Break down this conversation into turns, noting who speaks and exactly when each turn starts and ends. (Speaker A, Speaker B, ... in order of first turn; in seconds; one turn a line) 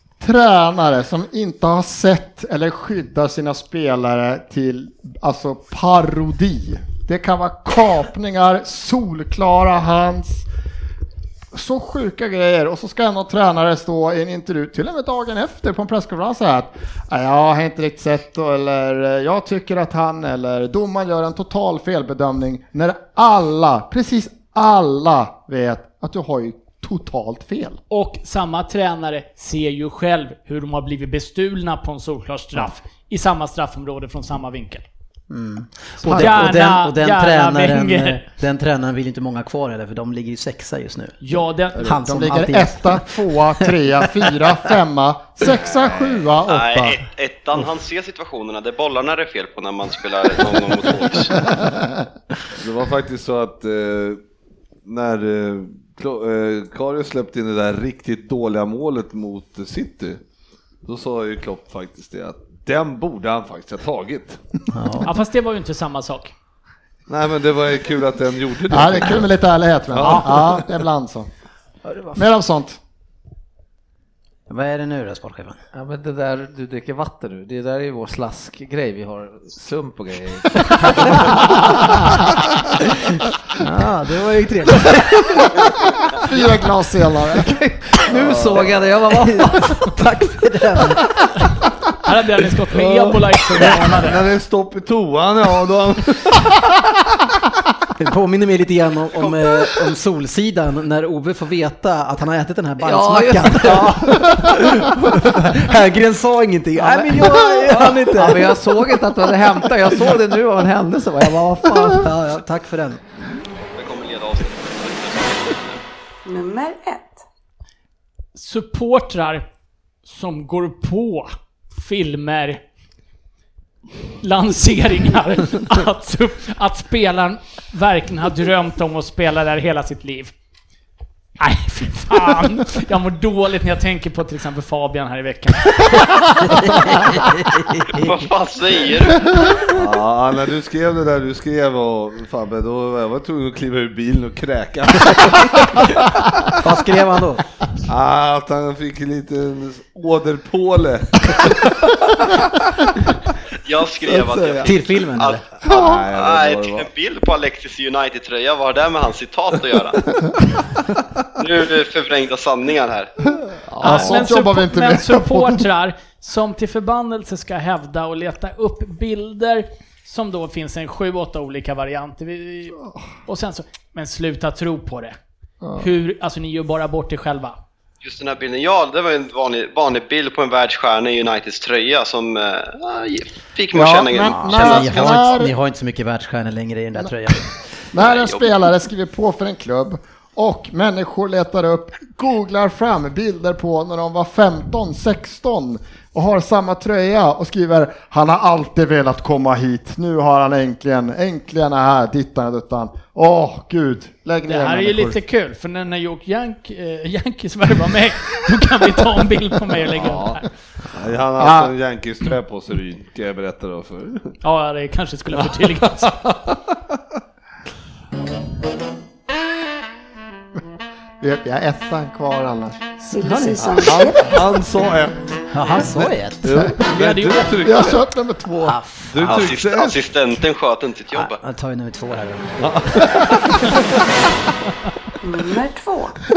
Speaker A: 0.2-10.4
Speaker A: 11.5-27.8
Speaker B: 27.9-34.8
Speaker C: 35.3-41.1
Speaker B: 36.0-38.2
Speaker A: 36.0-36.6
Speaker B: 41.2-42.0
Speaker C: 41.8-43.1
Speaker A: 41.8-47.0
Speaker D: 45.6-46.2
Speaker E: 46.5-51.4
Speaker D: 52.6-54.2
Speaker D: 54.8-60.2
Speaker D: 60.8-64.4
Speaker C: 64.7-65.1
Speaker B: 65.0-66.3
Speaker D: 67.1-69.3
Speaker A: 68.7-71.3
Speaker D: 69.9-70.6
Speaker F: 71.8-72.2
Speaker A: 72.1-72.8
Speaker C: 74.5-75.6
Speaker F: 75.7-81.9
Speaker C: 83.6-85.7
Speaker A: 86.2-87.5
Speaker F: 87.3-89.9
Speaker D: 88.2-88.7
Speaker C: 89.1-91.2
Speaker B: 92.0-94.2
Speaker D: 92.7-96.7
Speaker C: 98.0-108.6
Speaker F: 102.8-104.3
Speaker F: 106.8-112.1
Speaker C: 111.9-113.0
Speaker E: 113.8-115.8
Speaker G: 116.2-117.2
Speaker B: 118.3-119.4
Speaker B: 120.0-122.6
Speaker B: 124.2-130.3
Speaker B: 131.4-135.7
Speaker C: 136.3-138.1
Speaker E: 137.8-139.4
Speaker D: 139.7-146.6
Speaker C: 146.6-147.4
Speaker D: 147.8-153.0
Speaker E: 153.6-160.1
Speaker D: 154.0-154.7
Speaker C: 154.7-155.4
Speaker D: 155.6-156.9
Speaker D: 160.9-161.2
Speaker E: 161.3-163.1
Speaker D: 163.7-164.2
Speaker A: 163.8-165.6
Speaker B: 163.8-175.1
Speaker A: 175.6-175.9
Speaker B: 175.8-177.6
Speaker E: 178.0-185.2
Speaker A: 183.7-185.5
Speaker C: 184.3-187.5
Speaker A: 187.9-205.2
Speaker E: 187.9-188.5
Speaker B: 204.5-210.4
Speaker D: 209.9-214.3
Speaker A: 211.4-211.7
Speaker B: 214.4-216.1
Speaker D: 215.4-217.0
Speaker A: 221.2-222.8
Speaker G: 223.0-224.6
Speaker C: 223.2-224.0
Speaker D: 223.7-228.0
Speaker C: 225.5-226.6
Speaker B: 226.8-227.9
Speaker A: 227.6-228.8
Speaker C: 228.6-229.4
Speaker D: 229.1-230.0
Speaker E: 229.2-231.4
Speaker C: 231.1-233.2
Speaker D: 232.6-234.0
Speaker G: 235.2-236.2